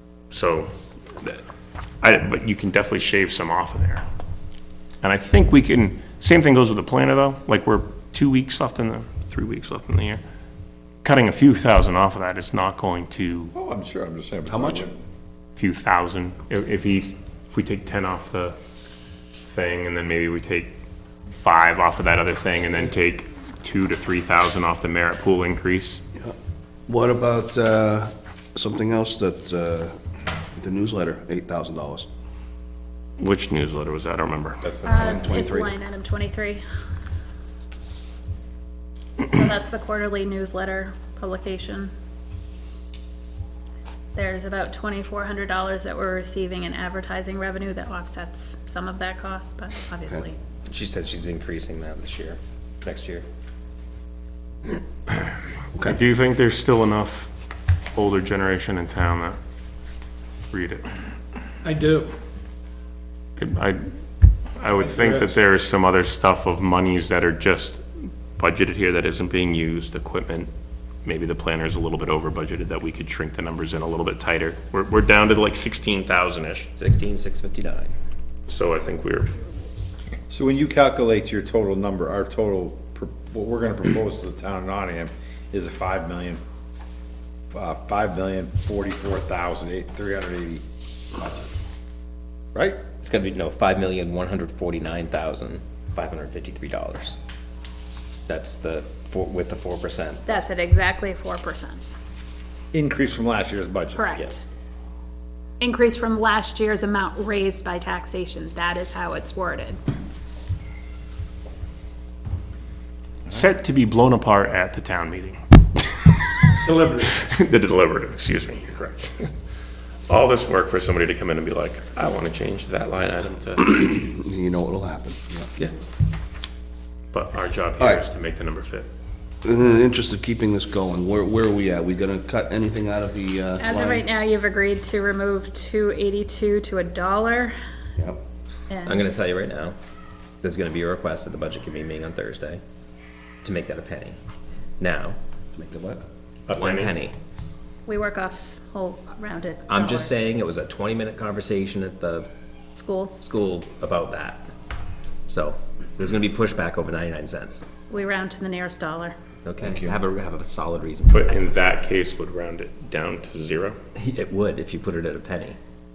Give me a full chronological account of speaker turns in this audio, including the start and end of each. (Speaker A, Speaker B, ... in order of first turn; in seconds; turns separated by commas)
Speaker A: 0.3-1.4, Speaker A: 2.0-4.0, Speaker A: 5.0-10.2, Speaker A: 11.0-13.5, Speaker B: 13.5-15.0, Speaker C: 14.5-14.9, Speaker A: 15.6-18.6, Speaker A: 19.4-20.7, Speaker A: 21.3-26.0, Speaker C: 26.9-30.0, Speaker C: 30.6-32.1, Speaker A: 33.2-34.8, Speaker B: 34.6-35.3, Speaker D: 34.8-36.6, Speaker C: 35.0-35.7, Speaker D: 39.2-41.9, Speaker D: 44.1-50.3, Speaker E: 50.7-53.2, Speaker A: 55.1-57.3, Speaker A: 57.9-59.4, Speaker A: 60.5-60.9, Speaker B: 61.7-62.0, Speaker A: 63.4-64.0, Speaker A: 64.6-70.5, Speaker A: 71.0-76.7, Speaker E: 76.8-77.9, Speaker A: 78.5-79.3, Speaker B: 80.3-86.4, Speaker B: 87.5-90.6, Speaker B: 91.2-91.5, Speaker B: 92.5-92.8, Speaker E: 93.0-97.2, Speaker E: 98.3-100.4, Speaker D: 100.2-101.8, Speaker B: 102.7-104.0, Speaker D: 103.9-104.4, Speaker D: 105.6-109.8, Speaker A: 113.3-119.3, Speaker A: 120.1-123.9, Speaker C: 123.7-125.5, Speaker A: 127.1-128.9, Speaker C: 129.4-134.1, Speaker D: 133.6-137.5, Speaker C: 138.0-138.2, Speaker D: 138.7-139.2, Speaker E: 138.8-139.8, Speaker E: 140.4-142.6, Speaker E: 143.4-144.2, Speaker E: 144.8-145.2, Speaker C: 145.5-146.0, Speaker A: 146.5-147.0, Speaker E: 146.5-147.1, Speaker D: 147.8-150.3, Speaker E: 149.7-152.3, Speaker D: 152.8-153.2, Speaker E: 153.2-154.4, Speaker E: 155.2-157.6, Speaker D: 157.9-159.1, Speaker E: 159.4-161.5, Speaker C: 159.6-160.0, Speaker A: 161.1-163.8, Speaker E: 164.0-165.6